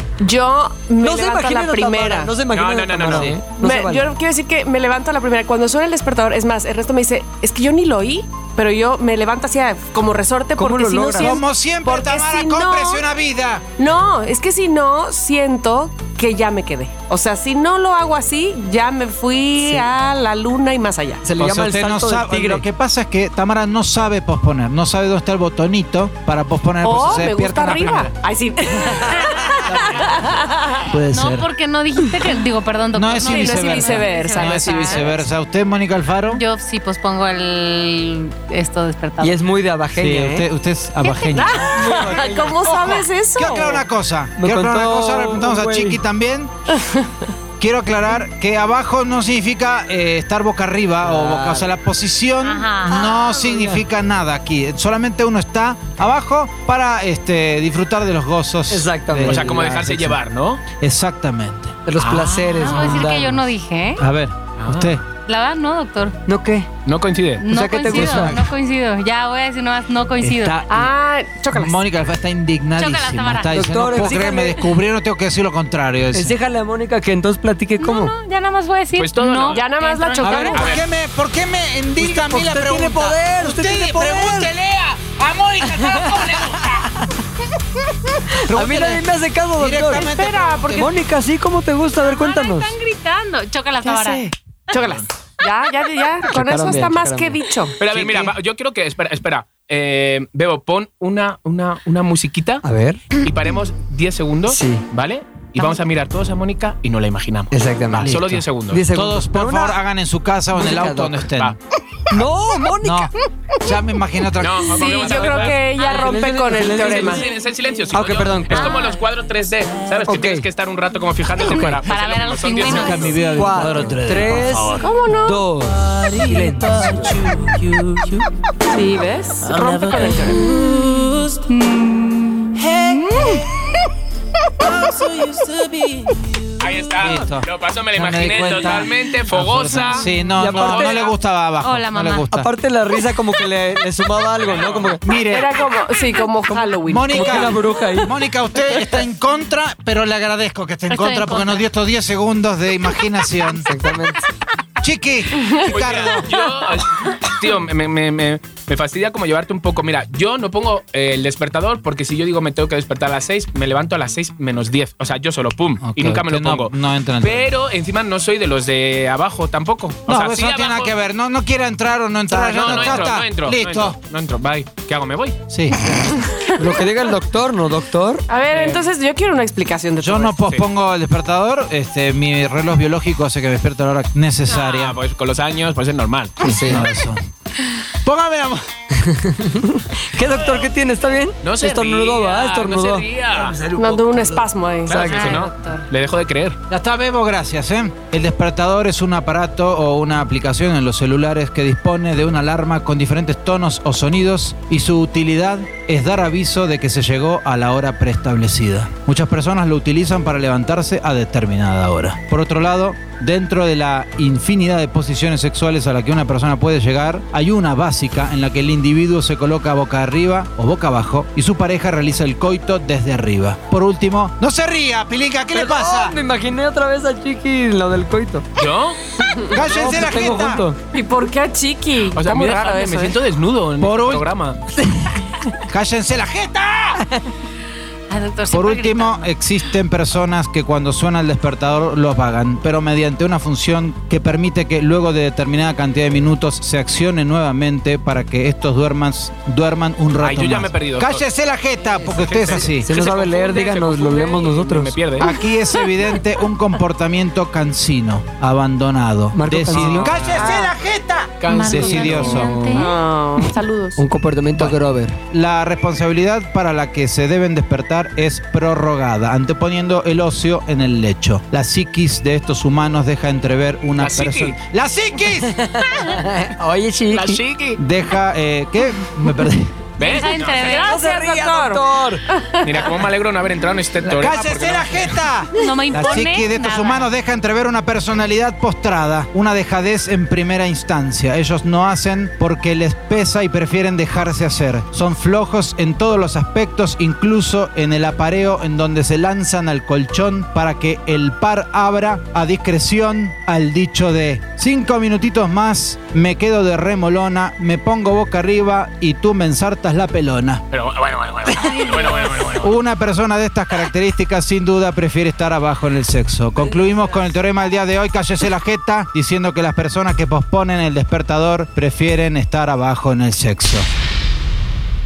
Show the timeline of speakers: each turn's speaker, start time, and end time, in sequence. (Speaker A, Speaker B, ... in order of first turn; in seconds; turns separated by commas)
Speaker A: 0.2-2.3, Speaker B: 1.0-4.1, Speaker C: 2.5-3.3, Speaker D: 3.1-3.4, Speaker A: 3.5-13.0, Speaker B: 10.6-11.4, Speaker D: 11.2-13.7, Speaker A: 13.8-21.2, Speaker B: 19.6-19.9, Speaker B: 21.2-22.6, Speaker D: 21.4-28.1, Speaker A: 26.8-30.9, Speaker D: 29.6-30.2, Speaker D: 30.9-31.5, Speaker E: 31.1-35.1, Speaker D: 32.9-36.4, Speaker A: 33.3-35.3, Speaker E: 36.3-39.4, Speaker B: 39.2-40.5, Speaker D: 40.0-41.9, Speaker A: 41.1-43.9, Speaker B: 41.6-43.0, Speaker D: 42.7-46.5, Speaker B: 44.4-46.0, Speaker A: 46.7-47.2, Speaker D: 47.6-60.2, Speaker B: 51.0-51.7, Speaker E: 52.4-53.0, Speaker B: 52.9-53.8, Speaker B: 58.7-59.5, Speaker C: 59.3-60.6, Speaker D: 60.7-61.8, Speaker B: 61.9-63.4, Speaker E: 62.2-64.0, Speaker D: 64.0-65.0, Speaker C: 64.6-65.0, Speaker E: 65.3-66.2, Speaker B: 66.3-66.7, Speaker C: 66.9-67.5, Speaker E: 67.4-70.6, Speaker B: 67.5-68.4, Speaker D: 67.9-68.5, Speaker D: 70.2-70.9, Speaker A: 70.7-71.8, Speaker D: 71.5-76.3, Speaker E: 72.8-73.9, Speaker B: 73.5-74.6, Speaker B: 76.1-78.1, Speaker E: 77.8-80.8, Speaker C: 79.0-79.7, Speaker A: 79.5-80.8, Speaker D: 80.2-87.0, Speaker C: 80.5-80.8, Speaker B: 82.0-84.5, Speaker B: 85.6-87.1, Speaker D: 88.5-89.0, Speaker B: 88.5-90.1, Speaker D: 89.6-90.9, Speaker A: 89.9-90.9, Speaker B: 90.7-92.8, Speaker E: 92.0-94.3, Speaker B: 93.9-94.2, Speaker A: 94.7-97.8, Speaker B: 96.3-97.4, Speaker C: 97.8-108.8, Speaker D: 97.9-98.3, Speaker B: 102.6-103.1, Speaker B: 104.5-104.9, Speaker B: 107.5-108.2, Speaker D: 108.0-108.4, Speaker B: 108.7-109.8, Speaker D: 108.9-111.6, Speaker B: 110.5-111.3, Speaker B: 112.1-113.1, Speaker D: 112.8-115.3, Speaker C: 114.4-115.7, Speaker A: 114.7-117.3, Speaker B: 115.8-117.3, Speaker C: 116.7-123.2, Speaker B: 117.9-118.8, Speaker E: 118.5-119.0, Speaker B: 120.0-120.5, Speaker B: 121.4-121.8, Speaker E: 121.8-123.2, Speaker D: 122.6-124.9, Speaker B: 123.3-127.4, Speaker A: 124.8-125.5, Speaker A: 128.7-130.5, Speaker E: 131.5-133.4, Speaker B: 135.4-136.1, Speaker C: 136.6-141.1, Speaker D: 137.0-142.5, Speaker B: 140.4-141.1, Speaker E: 141.6-142.3, Speaker B: 142.3-145.0, Speaker C: 144.4-144.9, Speaker D: 145.0-145.5, Speaker A: 145.2-147.7, Speaker B: 146.5-148.1, Speaker D: 146.9-153.7, Speaker E: 150.9-151.7, Speaker B: 153.6-154.3, Speaker D: 154.8-156.3, Speaker A: 155.4-156.3, Speaker C: 155.7-170.9, Speaker D: 165.8-167.5, Speaker D: 170.1-174.0, Speaker B: 172.3-173.1, Speaker C: 172.5-175.4, Speaker D: 175.5-176.1, Speaker A: 176.2-176.8, Speaker B: 176.5-178.2, Speaker A: 178.3-180.4, Speaker C: 178.5-178.9, Speaker D: 180.0-185.0, Speaker C: 184.5-186.4, Speaker B: 186.4-186.9, Speaker D: 186.4-187.2, Speaker D: 188.0-188.6, Speaker B: 188.9-195.4, Speaker C: 191.4-193.6, Speaker A: 193.8-195.1, Speaker C: 194.9-196.6, Speaker E: 195.0-195.9, Speaker D: 196.7-226.2, Speaker B: 225.5-228.5, Speaker C: 228.6-229.0, Speaker A: 229.3-229.6, Speaker D: 229.5-230.7, Speaker B: 229.6-230.8, Speaker A: 230.9-233.2, Speaker C: 232.1-234.6, Speaker D: 233.8-234.3, Speaker B: 234.8-235.4, Speaker D: 235.6-237.0, Speaker E: 238.1-239.3, Speaker D: 238.5-252.9, Speaker C: 250.2-251.2, Speaker B: 252.0-255.0, Speaker C: 252.1-255.3, Speaker D: 255.2-262.6, Speaker B: 259.3-260.2, Speaker C: 259.7-260.2, Speaker A: 260.4-260.8, Speaker C: 261.4-262.4, Speaker E: 261.5-262.9, Speaker B: 262.2-262.9, Speaker A: 262.7-264.0, Speaker B: 264.0-265.2, Speaker D: 265.3-275.6, Speaker C: 274.0-274.6, Speaker B: 275.4-277.4, Speaker C: 277.1-277.8, Speaker D: 277.8-279.9, Speaker C: 280.0-280.8, Speaker E: 280.0-280.9, Speaker A: 280.1-283.0, Speaker B: 280.9-282.2, Speaker C: 282.6-285.2, Speaker D: 284.1-310.6, Speaker E: 285.6-287.1, Speaker C: 310.7-312.8, Speaker D: 312.6-323.9